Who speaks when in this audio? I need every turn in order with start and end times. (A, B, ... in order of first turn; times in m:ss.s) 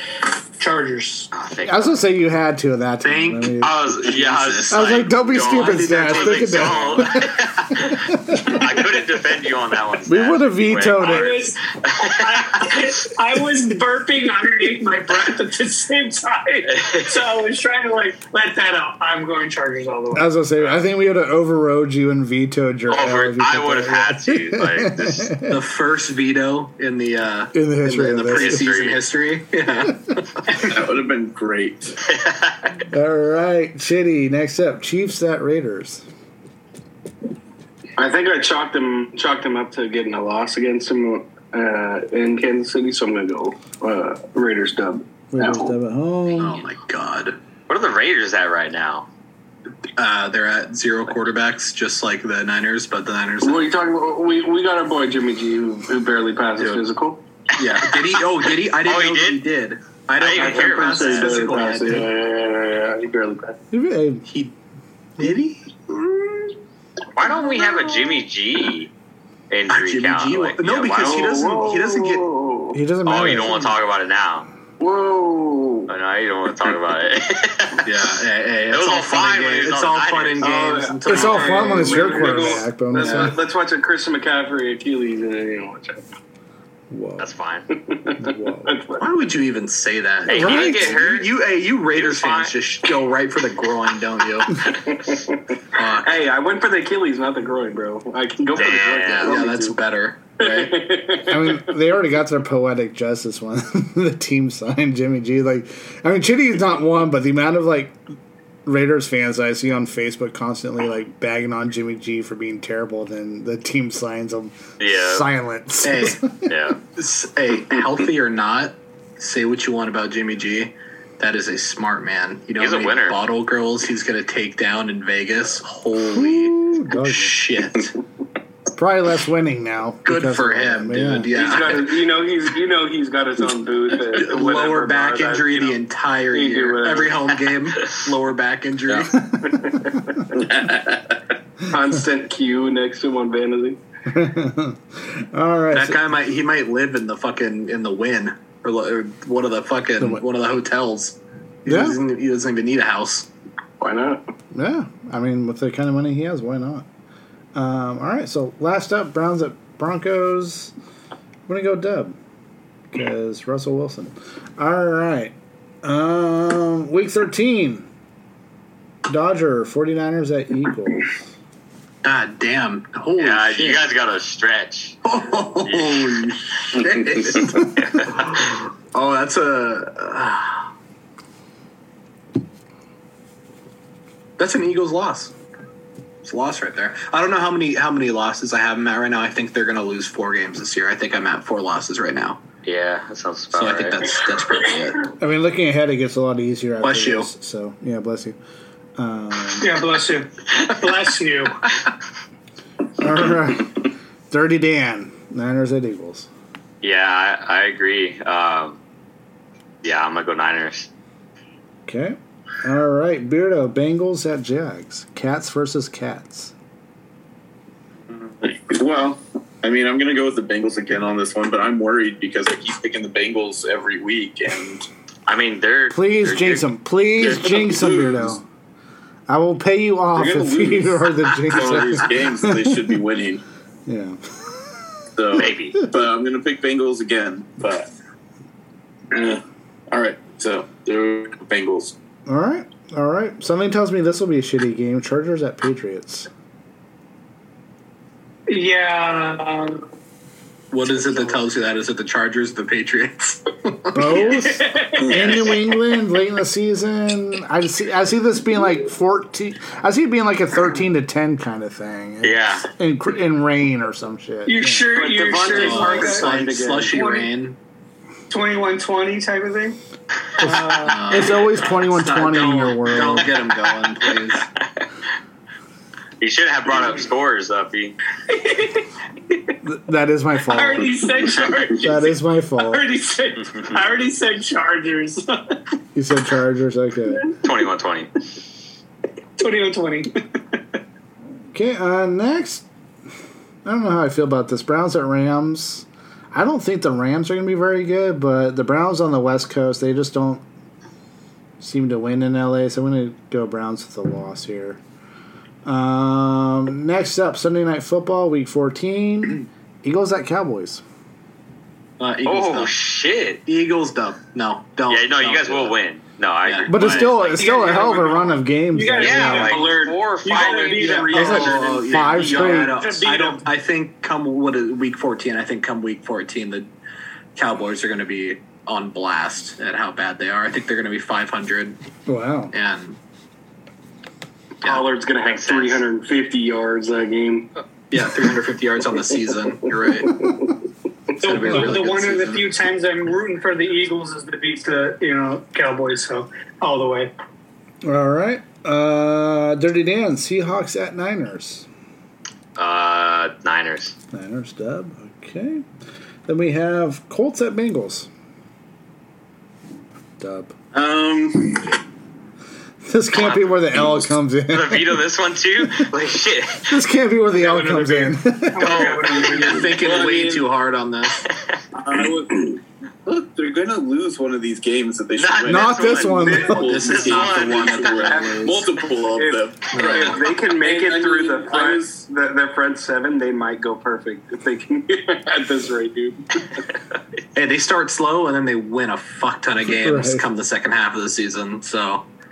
0:00.6-0:01.3 A
0:01.3-0:02.0 B
0:01.6-0:03.8 C
0:03.0-0:07.7 D
0:03.6-0:12.8 B
0:04.7-0:08.7 C
0:10.1-0:11.5 C
0:11.0-0:20.3 A
0:16.7-0:17.1 B
0:20.1-0:25.6 C
0:22.9-0:25.3 B
0:25.5-0:30.6 D
0:27.5-0:28.7 C
0:28.3-0:29.0 B
0:30.6-0:32.0 E
0:32.1-0:32.8 B
0:32.9-0:36.0 C
0:38.0-0:45.7 F
0:45.3-0:46.6 C
0:46.4-0:47.4 D
0:47.7-0:49.0 B
0:50.0-0:53.7 D
0:53.4-0:57.2 F
0:56.6-0:56.8 D
0:57.6-1:02.1 D
0:57.8-0:59.4 B
1:00.2-1:01.5 B
1:00.3-1:03.6 F
1:03.7-1:04.2 C
1:04.3-1:04.5 D
1:05.2-1:05.6 D
1:05.9-1:06.5 F
1:07.1-1:08.9 B
1:07.4-1:08.1 F
1:09.5-1:11.4 B
1:09.7-1:12.2 D
1:10.9-1:12.8 F
1:12.7-1:13.8 C
1:13.0-1:14.5 B
1:14.8-1:15.9 F
1:15.9-1:20.8 B
1:17.8-1:23.3 D
1:20.4-1:26.0 F
1:21.0-1:23.4 C
1:26.9-1:27.3 C
1:27.2-1:27.7 B
1:27.7-1:29.0 F
1:28.2-1:28.7 C
1:29.0-1:34.8 D
1:30.2-1:31.3 B
1:30.3-1:30.9 C
1:31.9-1:32.5 B
1:34.8-1:35.4 F
1:35.7-1:36.2 D
1:36.0-1:39.8 F
1:38.5-1:39.4 B
1:38.6-1:40.8 D
1:40.4-1:41.6 F
1:41.3-1:48.0 C
1:48.6-1:56.5 C
1:54.8-1:55.3 B
1:55.8-1:56.2 D
1:56.4-1:56.8 B
1:57.0-2:07.9 D
2:02.6-2:03.2 B
2:06.0-2:07.4 C
2:08.7-2:11.3 C
2:10.0-2:12.0 D
2:11.3-2:15.8 F
2:14.1-2:19.2 D
2:16.3-2:17.3 F
2:19.1-2:20.0 C
2:19.5-2:20.0 F
2:20.3-2:21.2 E
2:21.7-2:23.8 F
2:24.1-2:26.0 C
2:25.7-2:33.3 D
2:31.6-2:32.0 C
2:33.8-2:34.2 F
2:34.5-2:36.8 C
2:37.5-2:40.7 C
2:41.5-2:42.2 C
2:42.9-2:47.9 C
2:49.1-2:51.1 C
2:52.0-2:53.9 D
2:53.2-2:55.0 B
2:55.0-3:00.7 D
2:55.6-2:56.2 B
2:57.8-2:58.3 B
3:04.4-3:05.3 D
3:06.2-3:12.4 D
3:12.6-3:14.0 B
3:13.5-3:15.1 D
3:15.2-3:18.4 C
3:16.8-3:17.3 D
3:19.0-3:19.8 C
3:19.6-3:21.6 A
3:23.0-3:26.3 C
3:26.8-3:28.8 B
3:29.8-3:30.9 B
3:31.8-3:36.5 C
3:38.1-3:44.9 E
3:45.3-3:46.6 B
3:45.9-3:48.4 C
3:47.2-3:48.3 E
3:49.3-3:53.0 C
3:50.1-3:53.4 E
3:53.8-3:54.8 C
3:55.2-3:57.9 E
3:55.4-3:55.8 B
3:59.1-4:01.9 E
4:02.2-4:06.3 C
4:08.5-4:09.8 A
4:10.7-4:14.3 D
4:13.9-4:25.0 C
4:14.1-4:15.7 A
4:15.0-4:15.4 E
4:22.2-4:22.6 B
4:24.4-4:27.3 A
4:24.9-4:27.0 F
4:25.4-4:27.6 D
4:28.3-4:29.8 A
4:30.4-4:31.3 A
4:30.4-4:33.4 C
4:30.8-4:34.5 D
4:36.2-4:38.0 B
4:38.3-4:38.8 A
4:39.6-4:40.9 C
4:40.5-4:45.6 A
4:41.8-4:42.8 C
4:45.9-4:47.3 C
4:47.4-4:48.1 B
4:49.4-4:50.6 A
4:51.5-4:52.6 C
4:53.6-5:00.4 C
5:01.6-5:04.8 C
5:05.6-5:10.8 C
5:12.0-5:12.7 D
5:12.2-5:13.4 B
5:13.4-5:15.7 D
5:14.9-5:17.4 B
5:16.4-5:17.0 D
5:16.7-5:19.6 C
5:17.3-5:19.7 A
5:19.0-5:21.5 B
5:19.3-5:22.7 F
5:20.2-5:21.6 A
5:20.8-5:26.7 D
5:21.2-5:22.8 C
5:22.6-5:23.4 A
5:27.4-5:31.8 D
5:32.1-5:32.5 C
5:32.5-5:33.0 D
5:34.6-5:37.5 F
5:35.2-5:35.8 B
5:37.9-5:40.4 D
5:41.2-5:42.5 D
5:41.2-5:47.1 A
5:47.8-5:51.6 C
5:52.6-5:53.9 B
5:54.1-5:55.6 C
5:56.2-5:58.1 C
6:00.2-6:00.5 C
6:00.7-6:01.8 E
6:02.8-6:05.0 C
6:03.1-6:03.8 B
6:04.5-6:06.8 B
6:06.7-6:08.8 C
6:07.4-6:09.8 A
6:08.6-6:09.5 B
6:09.1-6:11.3 D
6:09.3-6:10.5 E
6:11.3-6:11.5 B
6:11.8-6:22.0 E
6:15.1-6:18.1 B
6:15.5-6:16.8 C
6:16.5-6:18.6 D
6:18.0-6:26.2 F
6:19.7-6:20.2 D
6:27.3-6:32.0 D
6:29.7-6:30.3 C